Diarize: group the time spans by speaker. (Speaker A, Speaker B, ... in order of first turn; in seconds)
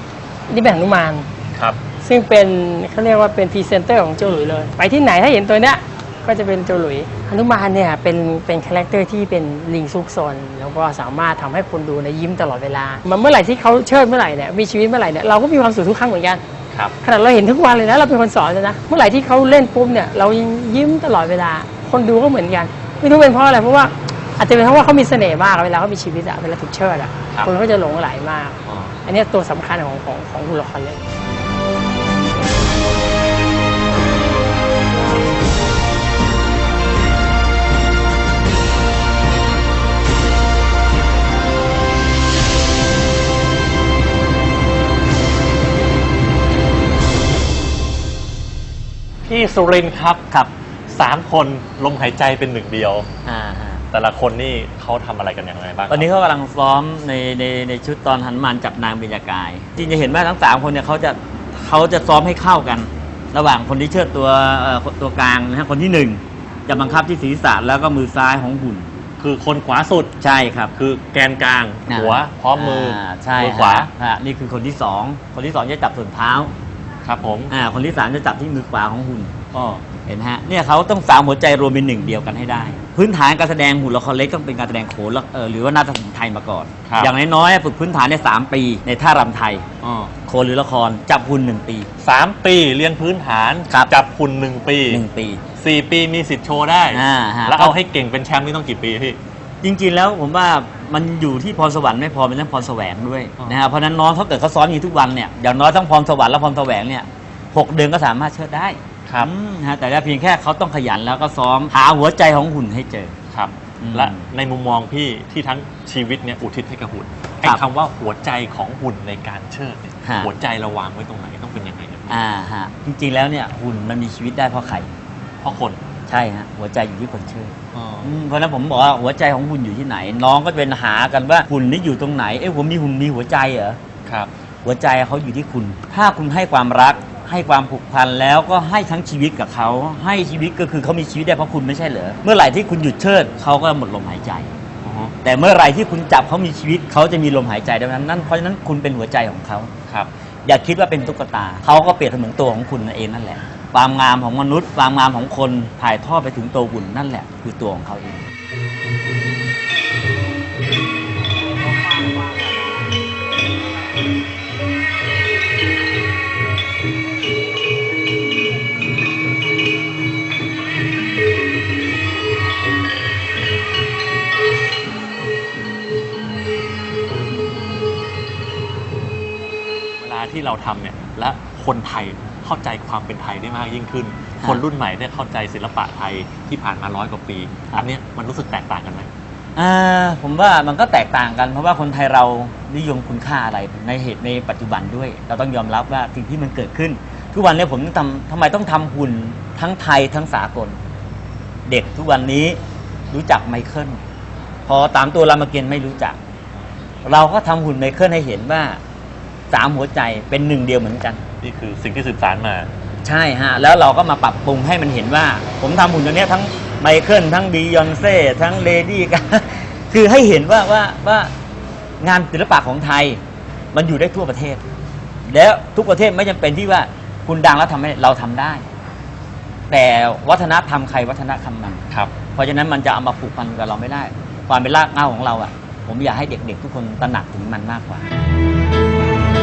Speaker A: 0.5-1.3, 2.0-16.4, 17.0-31.0
Speaker B: 1.5-1.8, 28.6-28.9, 49.2-50.2, 50.9-53.1, 53.9-56.1, 69.2-70.2, 70.7-73.9, 77.0-77.5, 79.5-79.8, 86.8-87.1, 89.8-90.1, 92.0-95.0, 95.6-99.2, 113.3-122.2, 125.4-125.8, 127.7-128.1, 144.8-145.1, 180.0-189.1, 211.4-212.7
Speaker C: 53.2-53.8, 55.9-68.9, 70.2-70.7, 71.9-76.5, 77.5-79.3, 80.0-89.6, 90.2-91.9, 94.9-95.4, 96.9-97.8, 99.6-113.1, 113.8-114.2, 120.0-120.3, 122.1-124.9, 126.1-133.8, 134.6-144.5, 145.2-149.7, 150.4-158.3, 189.6-200.8, 201.7-202.6, 203.1-204.0, 204.7-206.2, 207.0-208.8, 209.5-211.2, 213.0-221.3, 222.0-223.2, 223.7-224.6, 225.2-228.6, 229.7-238.1